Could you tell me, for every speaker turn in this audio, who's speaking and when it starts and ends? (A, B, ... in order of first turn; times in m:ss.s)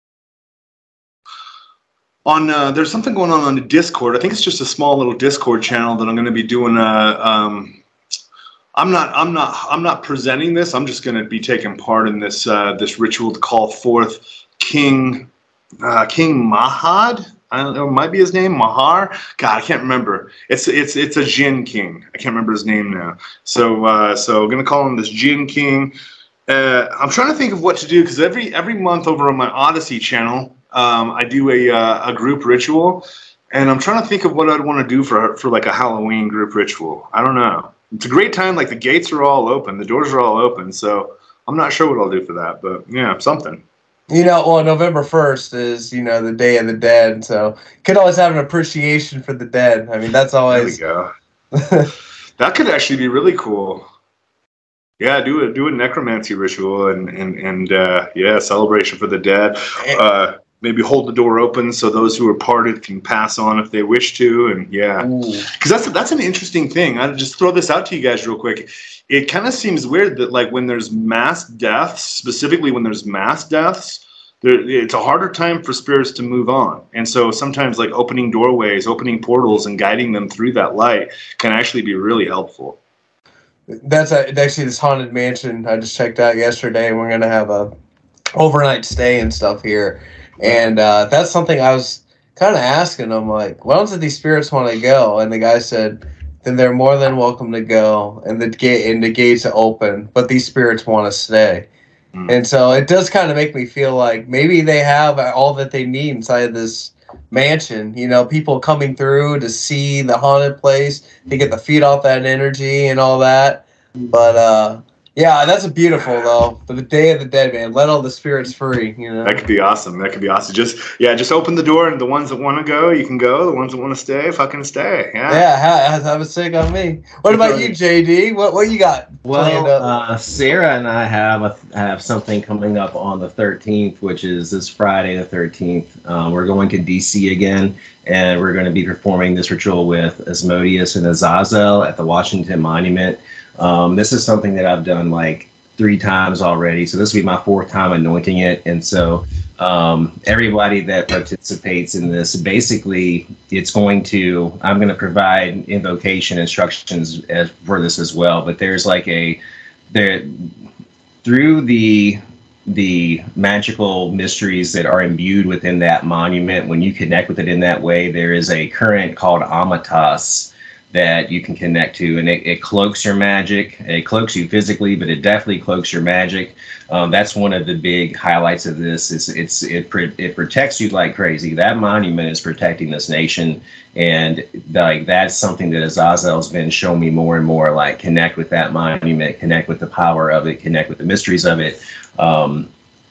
0:02.2-0:07.8 A
0:08.8-0:15.3 A
0:15.8-0:25.9 A
0:26.5-0:43.6 A
0:44.1-0:50.8 B
0:50.5-0:51.1 A
0:51.5-0:51.9 B
0:52.4-0:53.9 A
0:55.0-1:22.8 A
1:05.0-1:05.5 B
1:23.7-1:27.7 B
1:28.4-1:41.7 B
1:42.3-1:59.4 B
1:59.2-2:05.4 A
2:05.3-2:09.9 B
2:07.3-2:07.8 A
2:09.2-2:40.6 C
2:41.2-3:12.7 C